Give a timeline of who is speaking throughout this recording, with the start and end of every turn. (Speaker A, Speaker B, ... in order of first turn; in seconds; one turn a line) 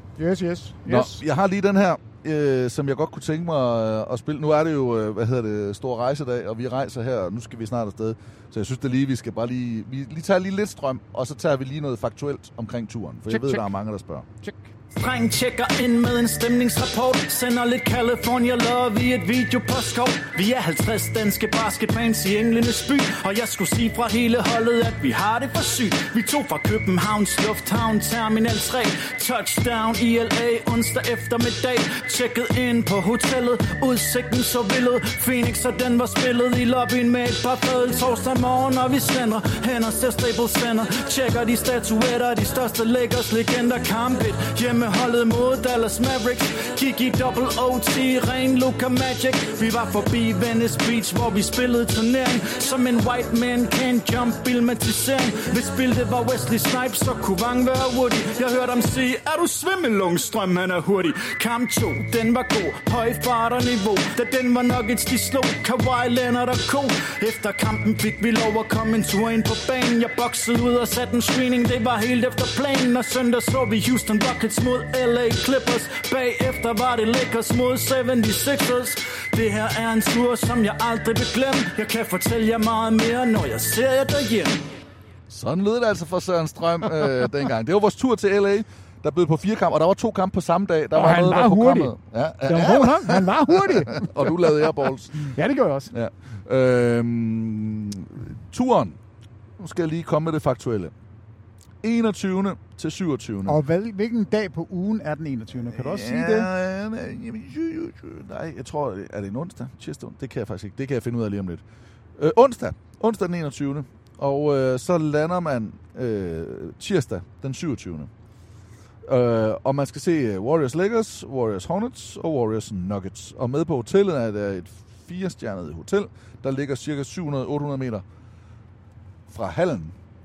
Speaker A: 0.2-1.2
Speaker B: 0.9-14.3
Speaker A: 13.3-13.7
Speaker A: 14.4-14.7
Speaker C: 14.9-84.7
Speaker B: 85.3-95.2
Speaker A: 90.9-91.9
Speaker A: 92.5-95.9
Speaker B: 95.9-99.0
Speaker B: 99.6-100.9
Speaker B: 101.8-103.6
Speaker A: 103.5-106.5
Speaker B: 105.6-111.6
Speaker B: 112.2-118.1
Speaker B: 119.0-128.1
Speaker B: 129.3-129.9